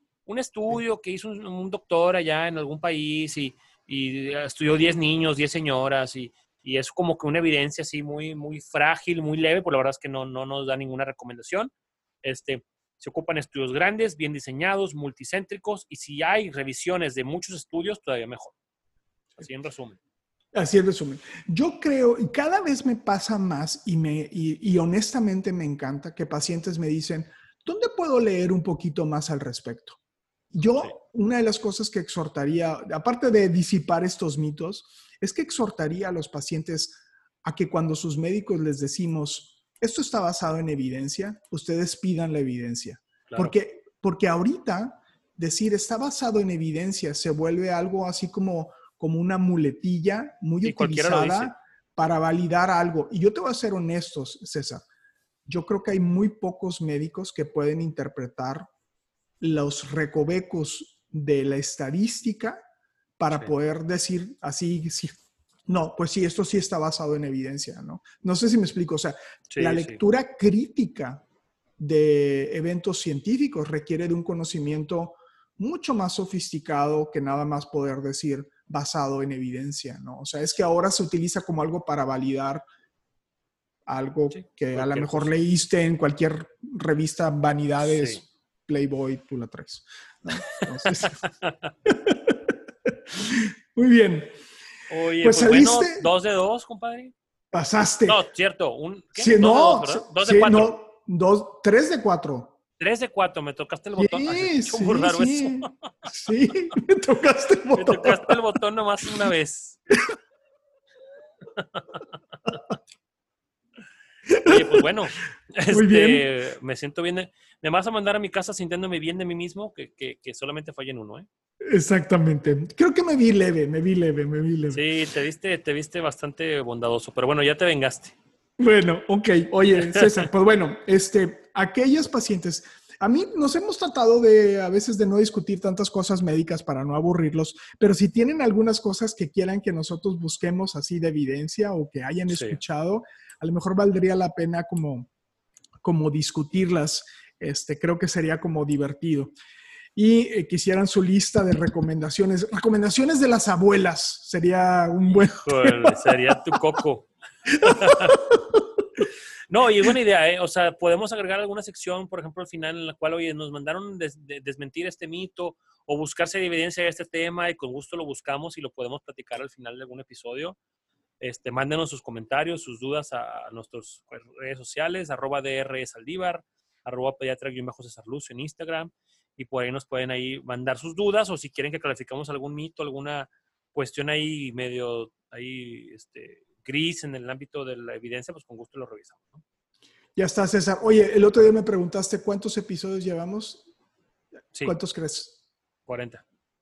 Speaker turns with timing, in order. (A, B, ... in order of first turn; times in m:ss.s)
0:00.2-0:11.7 A
0:12.2-0:18.5 A
0:19.4-0:20.0 A
0:20.5-0:30.0 B
0:30.5-0:54.8 B
0:50.6-0:51.5 A
0:55.5-0:58.7 B
0:59.4-1:02.6 B
1:03.2-1:11.2 B
1:09.5-1:10.0 A
1:11.8-1:22.6 B
1:23.8-1:31.2 B
1:24.3-1:25.3 A
1:27.8-1:28.2 A
1:30.9-1:31.5 A
1:31.8-1:34.4 B
1:34.9-1:37.1 A
1:35.2-1:36.1 B
1:37.5-1:38.2 B
1:38.1-1:40.8 A
1:39.2-1:42.5 B
1:42.8-1:45.9 A
1:44.0-1:48.4 B
1:47.7-1:49.8 A
1:51.6-1:52.0 A
1:54.3-1:54.8 B
1:54.4-2:01.3 A
1:55.7-1:56.2 B
2:01.6-2:04.8 B
2:04.7-2:08.1 A
2:08.6-2:25.1 B
2:22.3-2:22.6 A
2:25.8-2:29.3 B
2:29.9-2:36.1 B
2:35.1-2:38.2 A
2:37.6-2:38.6 B
2:39.5-2:50.6 A
2:51.2-3:09.4 A
3:10.2-3:13.7 B
3:14.6-3:15.4 B
3:15.9-3:16.2 A